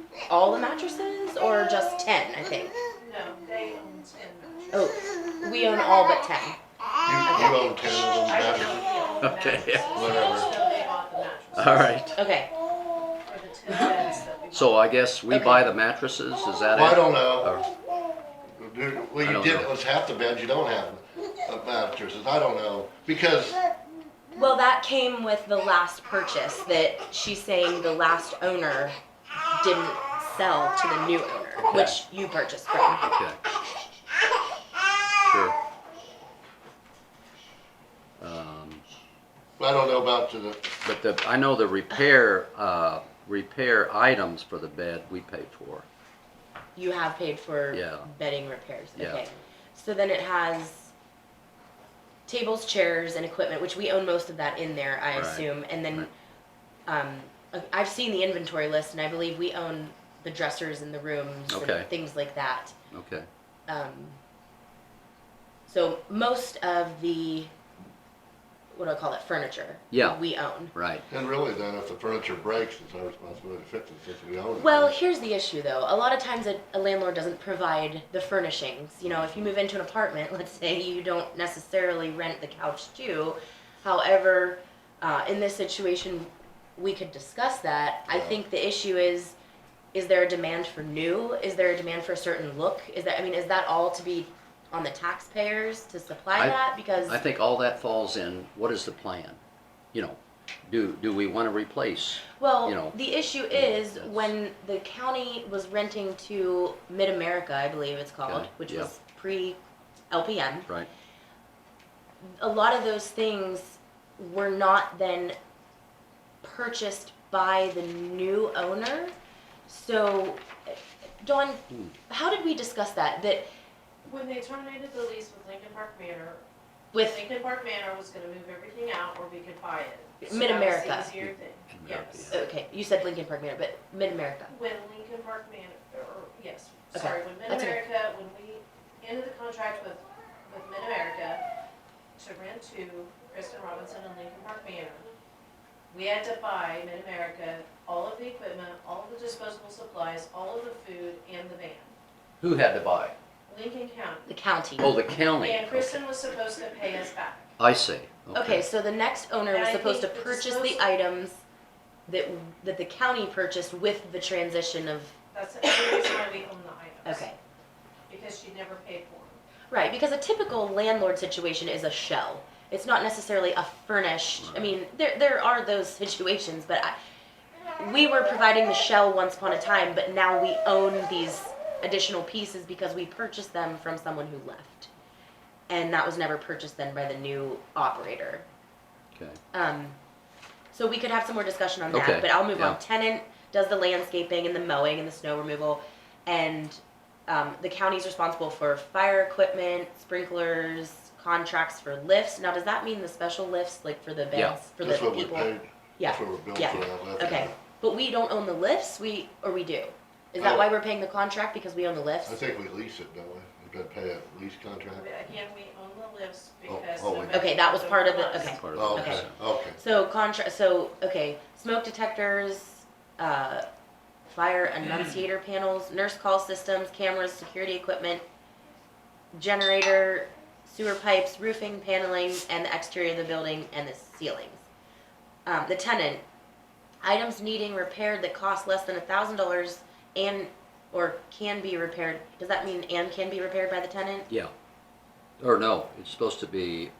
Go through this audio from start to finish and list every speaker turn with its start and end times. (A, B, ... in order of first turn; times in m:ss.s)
0:00.2-0:02.8 A
0:03.0-0:04.7 B
0:04.7-0:06.6 A
0:07.0-0:08.8 C
0:07.2-0:07.6 A
0:08.2-0:12.0 B
0:09.2-0:10.2 D
0:09.9-0:10.5 C
0:11.5-0:12.2 D
0:12.2-0:12.5 A
0:13.2-0:14.8 B
0:14.5-0:17.7 D
0:15.3-0:15.6 A
0:16.7-0:17.6 C
0:18.4-0:23.6 C
0:19.2-0:19.7 D
0:24.3-0:33.0 A
0:31.6-0:32.0 D
0:33.0-0:33.4 D
0:35.2-0:35.6 D
0:38.2-0:38.8 D
0:39.6-0:40.7 C
0:40.8-0:45.8 D
0:46.8-0:50.9 A
0:47.7-0:48.1 D
0:49.0-0:49.2 D
0:52.3-0:56.1 A
0:55.1-0:56.1 D
0:56.9-1:02.7 A
1:01.5-1:01.9 D
1:02.9-1:03.3 D
1:03.7-1:04.2 A
1:05.7-1:07.5 A
1:08.7-1:10.7 A
1:09.9-1:10.2 D
1:10.7-1:11.0 D
1:11.1-1:14.9 C
1:14.6-1:29.3 A
1:28.1-1:28.4 C
1:29.9-1:37.2 A
1:36.3-1:39.4 D
1:39.9-1:43.0 D
1:42.3-1:49.6 A
1:43.5-1:44.3 D
1:48.2-1:48.9 D
1:50.1-1:50.7 A
1:52.4-1:55.4 A
1:56.4-1:59.1 A
1:59.7-2:03.5 A
2:04.0-2:06.4 B
2:06.9-2:07.2 A
2:07.0-2:12.4 B
2:10.2-2:11.2 A
2:11.2-2:12.4 D
2:12.3-2:14.5 A
2:14.5-2:21.4 B
2:16.9-2:17.8 A
2:22.2-2:25.1 B
2:25.9-2:31.9 B
2:32.4-2:33.1 D
2:33.5-2:34.3 B
2:34.3-2:34.9 A
2:34.8-2:36.0 D
2:35.1-2:37.5 B
2:37.6-2:38.6 D
2:38.3-2:41.4 A
2:39.5-2:40.8 B
2:42.1-2:45.1 A
2:45.3-2:47.2 B
2:47.0-2:47.4 A
2:48.1-2:49.4 B
2:49.7-2:56.9 A
2:54.4-2:54.7 D
2:57.8-3:04.9 A
3:05.7-3:08.4 A
3:09.5-3:10.0 A
3:10.7-3:32.5 A
3:11.9-3:12.8 D
3:24.3-3:24.6 D
3:24.8-3:27.5 C
3:30.4-3:30.7 C
3:32.2-3:35.1 C
3:35.0-3:38.9 B
3:36.7-3:37.5 C
3:37.3-3:43.6 A
3:38.3-3:39.3 D
3:38.7-3:39.8 C
3:44.3-3:48.2 A
3:49.3-3:54.6 A
3:55.4-3:56.2 A
3:57.0-4:04.3 A
4:05.4-4:06.9 D